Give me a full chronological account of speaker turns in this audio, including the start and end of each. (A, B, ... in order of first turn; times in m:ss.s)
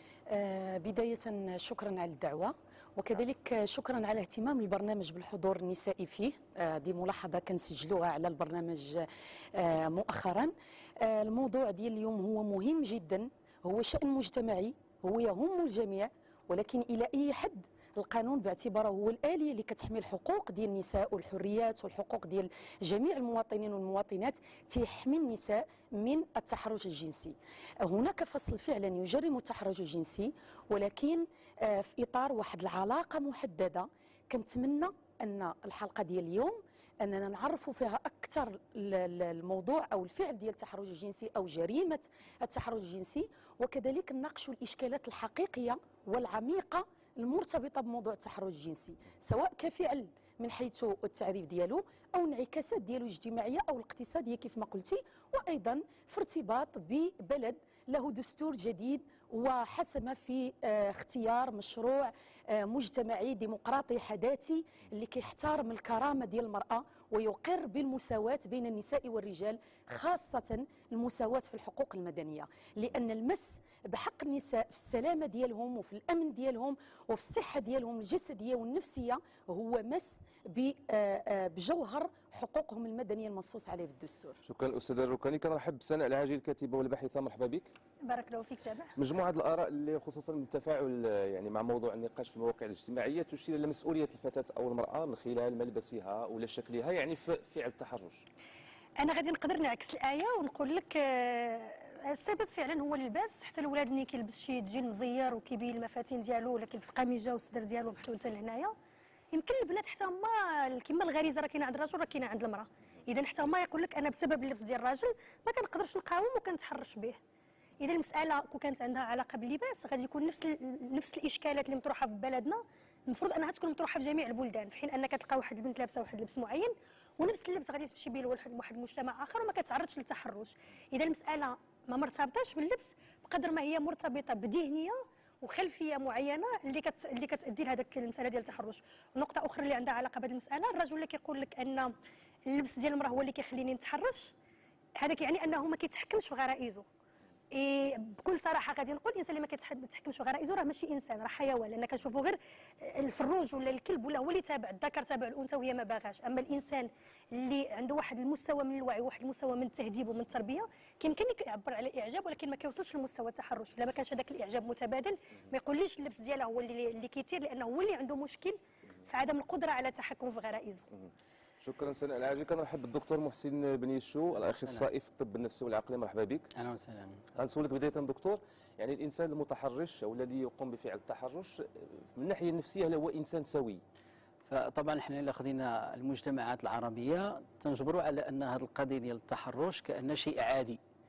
0:00.3-1:24.4 A
1:24.4-1:27.7 B
1:28.0-1:28.9 C
1:29.0-1:38.2 B
1:39.0-1:48.7 C
1:49.3-1:57.2 C
1:57.8-2:22.0 C
2:22.5-2:24.3 C
2:25.0-2:26.8 C
2:27.5-2:50.8 C
2:51.6-2:56.5 B
2:56.5-2:57.2 D
2:57.4-3:01.6 B
3:02.1-3:03.8 B
3:04.5-3:10.8 D